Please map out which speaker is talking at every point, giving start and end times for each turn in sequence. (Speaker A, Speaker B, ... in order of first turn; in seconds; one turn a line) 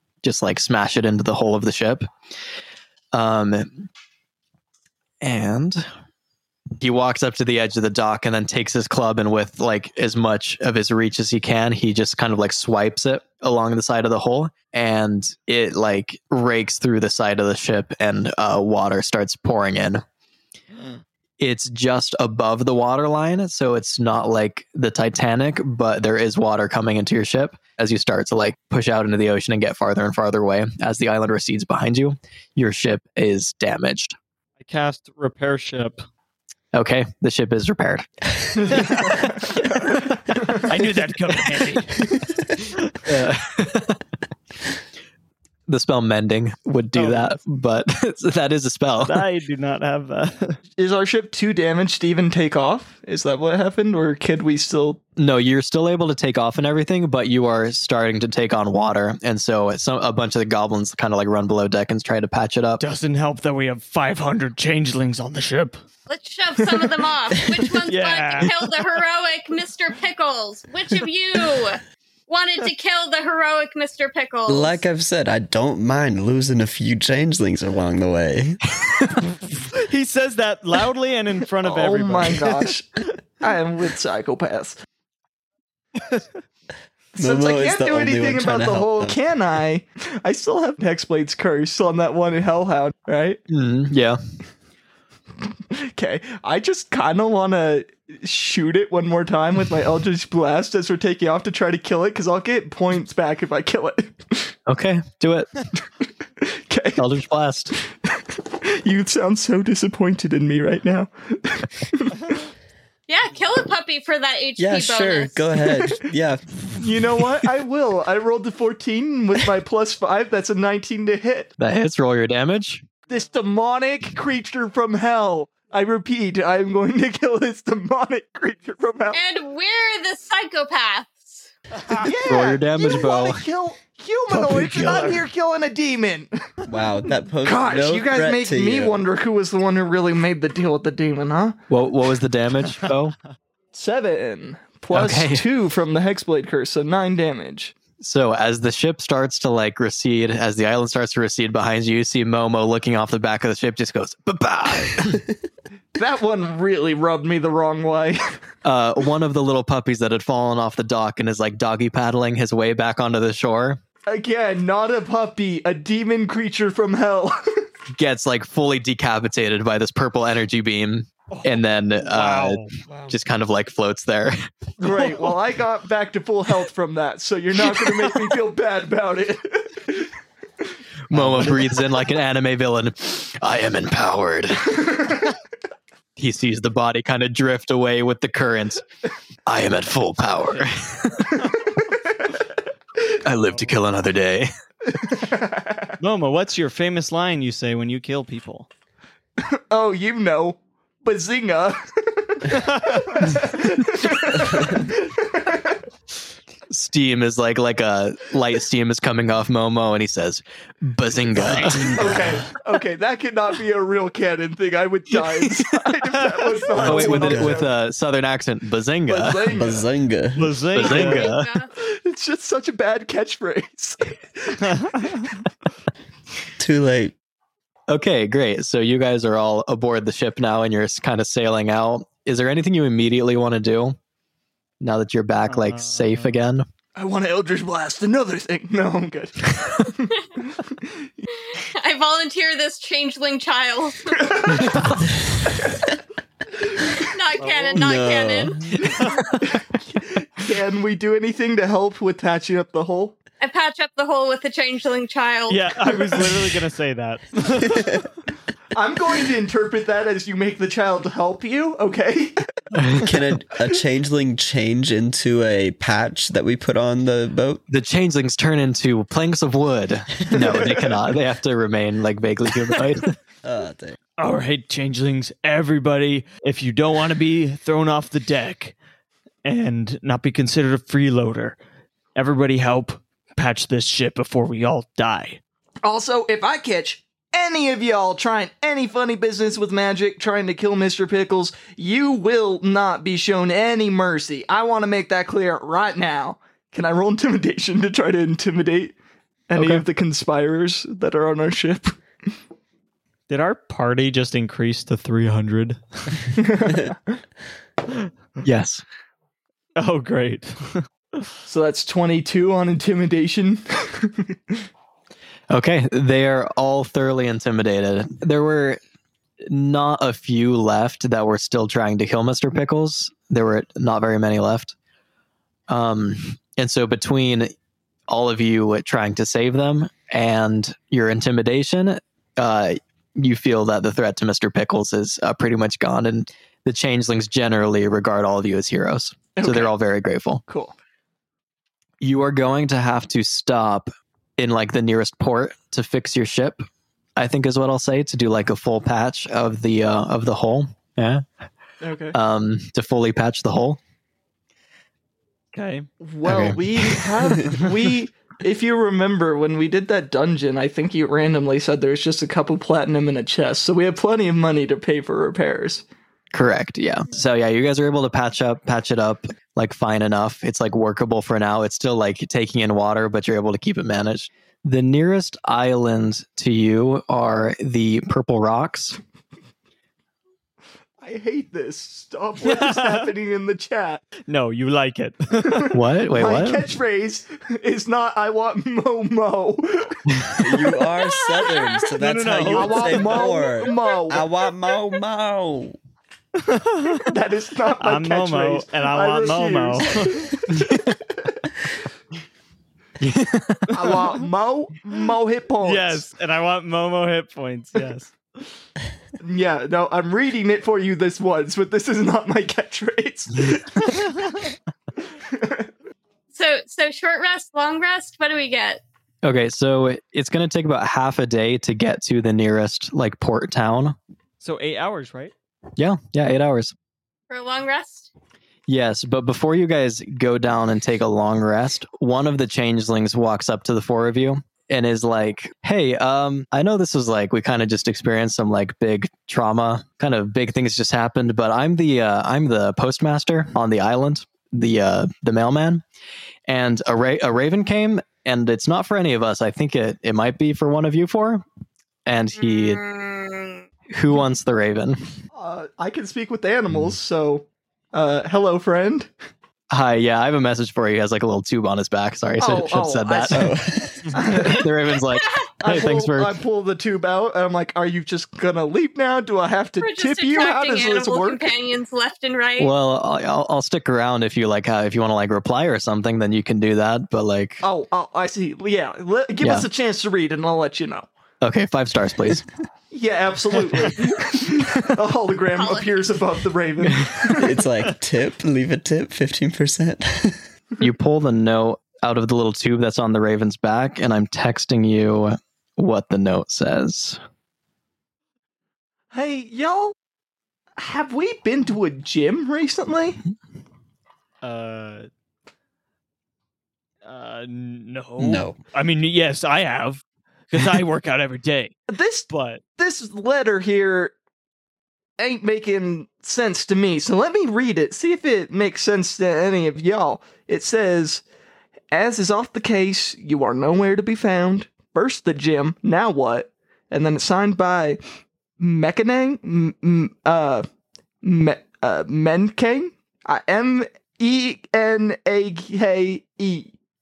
Speaker A: 0.2-2.1
Speaker A: 3.1-3.9
Speaker A: 5.2-5.9
Speaker A: 6.8-20.0
Speaker A: 21.4-34.2
Speaker B: 34.6-36.0
Speaker A: 36.7-39.2
Speaker B: 38.8-39.2
Speaker B: 40.7-42.0
Speaker A: 43.0-44.0
Speaker A: 45.7-49.3
Speaker B: 46.9-47.4
Speaker B: 49.0-50.6
Speaker C: 50.8-55.0
Speaker A: 55.2-62.8
Speaker B: 62.8-65.8
Speaker D: 66.1-74.8
Speaker B: 67.9-68.6
Speaker E: 74.5-78.6
Speaker B: 79.7-82.7
Speaker C: 81.6-84.8
Speaker E: 87.2-89.2
Speaker C: 87.2-93.4
Speaker A: 93.5-94.2
Speaker C: 95.7-104.5
Speaker A: 104.7-105.5
Speaker C: 106.4-107.0
Speaker A: 107.0-107.8
Speaker C: 107.8-112.4
Speaker D: 113.1-115.4
Speaker E: 114.6-117.2
Speaker C: 115.7-116.0
Speaker C: 116.8-121.5
Speaker A: 121.6-122.9
Speaker C: 123.1-129.2
Speaker D: 129.1-131.5
Speaker C: 131.9-136.3
Speaker A: 132.2-133.4
Speaker B: 134.4-135.2
Speaker E: 136.7-139.0
Speaker C: 137.4-141.6
Speaker A: 141.7-143.2
Speaker C: 143.7-147.7
Speaker A: 144.9-145.5
Speaker A: 148.0-155.2
Speaker C: 156.0-158.4
Speaker A: 158.7-163.8
Speaker C: 164.1-167.7
Speaker A: 167.9-174.5
Speaker B: 171.3-173.1
Speaker C: 174.8-180.1
Speaker A: 181.1-185.1
Speaker C: 181.1-181.6
Speaker C: 184.8-185.3
Speaker A: 186.2-188.8
Speaker A: 189.5-191.6
Speaker C: 191.4-192.3
Speaker A: 193.2-194.5
Speaker C: 195.0-195.9
Speaker B: 196.0-198.7
Speaker C: 199.4-205.8
Speaker B: 202.8-203.2
Speaker E: 204.5-204.8
Speaker A: 206.7-211.9
Speaker B: 211.4-211.9
Speaker E: 211.6-212.4
Speaker C: 211.7-217.7
Speaker A: 216.8-219.5
Speaker E: 216.8-217.6
Speaker C: 219.1-219.9
Speaker E: 219.5-220.6
Speaker B: 220.4-221.3
Speaker A: 220.7-221.5
Speaker D: 220.8-221.7
Speaker C: 221.8-224.7
Speaker B: 224.7-225.2
Speaker E: 226.6-227.2
Speaker A: 227.9-234.0
Speaker A: 234.8-236.7
Speaker B: 235.5-236.3
Speaker C: 237.0-241.1
Speaker D: 241.3-244.8
Speaker C: 244.2-245.0
Speaker C: 246.6-247.0
Speaker D: 247.0-248.7
Speaker B: 247.4-248.1
Speaker E: 247.8-248.8
Speaker B: 248.8-249.4
Speaker C: 249.4-253.2
Speaker D: 253.4-255.7
Speaker B: 255.5-258.0
Speaker E: 257.7-258.0
Speaker C: 258.7-262.4
Speaker A: 262.8-263.1
Speaker E: 263.0-267.6
Speaker A: 267.7-273.1
Speaker C: 270.3-270.8
Speaker E: 273.4-274.0
Speaker B: 274.2-278.8
Speaker B: 279.4-281.6
Speaker B: 282.1-285.4
Speaker C: 285.8-298.9
Speaker C: 299.5-302.0
Speaker A: 299.6-299.9
Speaker B: 303.3-306.2
Speaker C: 306.4-307.1
Speaker A: 308.4-308.8
Speaker B: 309.8-310.8
Speaker C: 311.5-314.6
Speaker A: 315.5-318.8
Speaker A: 319.4-324.8
Speaker A: 325.7-327.5
Speaker A: 328.1-340.4
Speaker C: 339.4-339.7
Speaker C: 340.5-340.8
Speaker A: 342.0-346.6
Speaker A: 347.2-351.2
Speaker C: 351.8-352.2
Speaker A: 352.1-353.8
Speaker B: 355.5-355.9
Speaker C: 356.0-365.9
Speaker A: 356.2-357.6
Speaker A: 366.3-379.0
Speaker C: 381.0-384.0
Speaker B: 382.4-383.1
Speaker B: 384.3-385.7
Speaker C: 385.4-390.3
Speaker A: 385.7-386.7
Speaker E: 390.4-395.8
Speaker D: 390.9-391.8
Speaker B: 392.0-393.4
Speaker C: 392.5-394.3
Speaker B: 396.4-397.1
Speaker C: 397.0-401.4
Speaker B: 397.8-400.3
Speaker A: 400.5-401.0
Speaker A: 403.0-403.9
Speaker C: 403.7-406.1
Speaker B: 405.6-408.1
Speaker C: 409.2-414.1
Speaker C: 415.2-415.7
Speaker D: 416.3-418.8
Speaker A: 419.2-424.0
Speaker B: 424.4-425.3
Speaker A: 425.8-426.8
Speaker D: 427.3-428.1
Speaker A: 428.7-445.8
Speaker A: 446.5-451.4
Speaker A: 452.1-452.8
Speaker D: 452.4-453.6
Speaker A: 453.9-455.0
Speaker C: 455.3-459.1
Speaker A: 459.7-463.5
Speaker C: 462.4-463.6
Speaker E: 463.3-464.1
Speaker C: 464.1-464.7
Speaker A: 464.3-466.4
Speaker D: 465.1-465.5
Speaker C: 465.6-471.5
Speaker D: 469.8-472.7
Speaker A: 472.6-477.6
Speaker C: 477.6-481.1
Speaker A: 479.4-479.7
Speaker A: 481.4-482.5
Speaker C: 482.9-487.6
Speaker D: 485.5-486.1
Speaker A: 486.9-487.1
Speaker E: 487.4-490.4
Speaker A: 490.8-497.2
Speaker C: 499.1-499.9
Speaker C: 500.8-503.2
Speaker B: 504.4-505.1
Speaker B: 507.0-511.8
Speaker E: 508.2-508.6
Speaker C: 511.9-514.1
Speaker B: 512.3-512.6
Speaker C: 515.2-521.2
Speaker C: 521.9-528.0
Speaker C: 528.6-530.7
Speaker C: 531.2-536.7